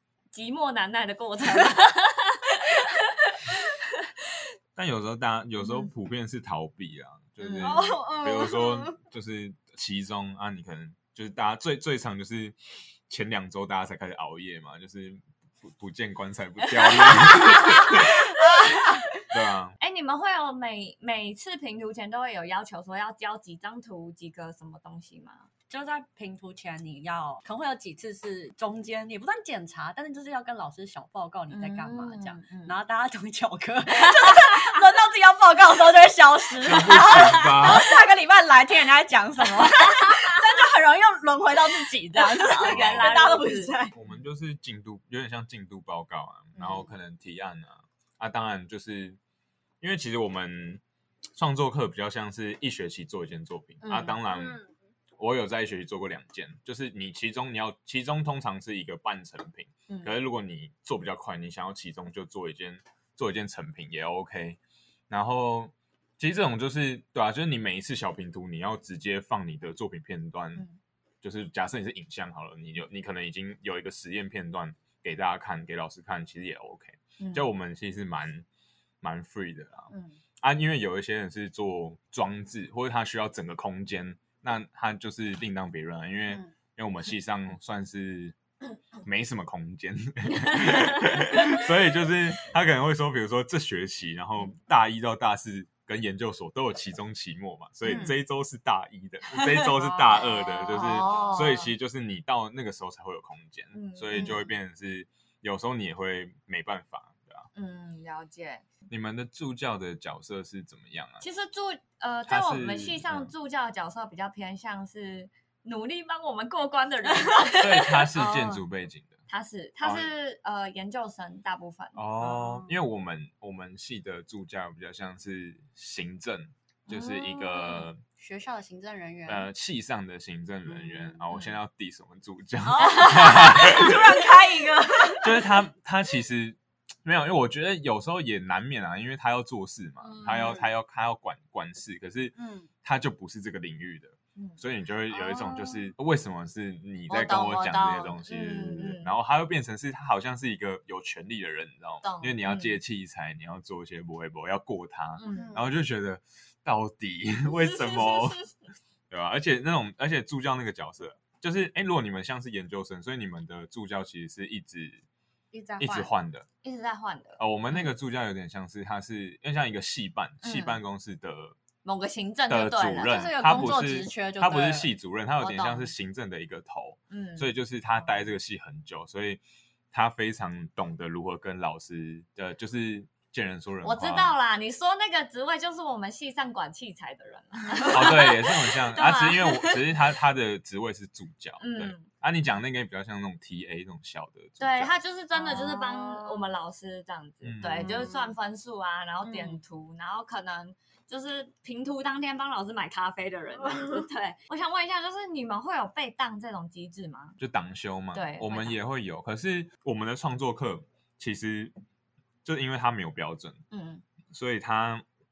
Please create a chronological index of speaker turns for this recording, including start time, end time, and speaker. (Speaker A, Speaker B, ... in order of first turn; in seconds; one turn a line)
Speaker A: 0.3-4.1
Speaker B: 4.8-12.6
Speaker A: 7.4-8.0
Speaker C: 7.6-9.0
Speaker B: 13.1-18.3
Speaker C: 17.0-19.0
Speaker B: 19.3-19.8
Speaker A: 19.8-25.5
Speaker C: 25.7-43.9
Speaker A: 31.5-32.7
Speaker B: 36.6-37.9
Speaker A: 37.1-37.5
Speaker A: 42.1-43.7
Speaker B: 42.6-43.3
Speaker B: 43.9-49.2
Speaker A: 46.5-46.9
Speaker B: 49.8-50.8
Speaker B: 51.3-54.6
Speaker A: 53.8-54.2
Speaker C: 54.3-54.7
Speaker B: 55.2-64.6
Speaker B: 65.1-70.6
Speaker B: 71.2-78.5
Speaker A: 77.2-77.5
Speaker B: 79.0-88.3
Speaker B: 89.0-107.5
Speaker C: 97.8-98.1
Speaker A: 99.6-101.7
Speaker A: 103.7-104.5
Speaker A: 107.5-108.6
Speaker B: 108.9-111.2
Speaker A: 111.2-118.5
Speaker B: 112.2-113.3
Speaker B: 117.6-119.2
Speaker C: 118.2-118.5
Speaker A: 119.3-122.0
Speaker B: 119.8-120.1
Speaker B: 121.9-128.0
Speaker C: 122.2-122.7
Speaker A: 126.9-127.9
Speaker C: 128.2-129.5
Speaker B: 129.3-134.2
Speaker A: 130.8-131.5
Speaker C: 132.6-135.4
Speaker A: 132.8-133.9
Speaker B: 135.2-158.4
Speaker C: 140.1-140.7
Speaker A: 140.1-140.6
Speaker C: 142.3-142.7
Speaker A: 144.3-145.8
Speaker A: 147.1-149.1
Speaker A: 152.0-152.8
Speaker A: 155.2-155.6
Speaker C: 155.3-155.7
Speaker A: 157.6-158.4
Speaker B: 159.1-165.0
Speaker C: 165.5-166.1
Speaker B: 165.8-166.5
Speaker A: 166.6-167.4
Speaker B: 167.4-171.6
Speaker A: 170.4-170.8
Speaker A: 171.8-173.5
Speaker B: 172.5-179.4
Speaker C: 173.1-174.9
Speaker A: 175.4-175.9
Speaker A: 177.1-177.5
Speaker B: 179.9-184.3
Speaker A: 183.8-189.9
Speaker B: 187.9-195.0
Speaker A: 191.6-192.1
Speaker A: 194.6-207.4
Speaker C: 195.3-196.5
Speaker B: 197.4-198.1
Speaker C: 197.6-198.3
Speaker C: 199.2-199.6
Speaker B: 207.4-211.7
Speaker A: 208.1-208.8
Speaker B: 212.4-213.6
Speaker A: 213.7-214.0
Speaker B: 214.3-215.0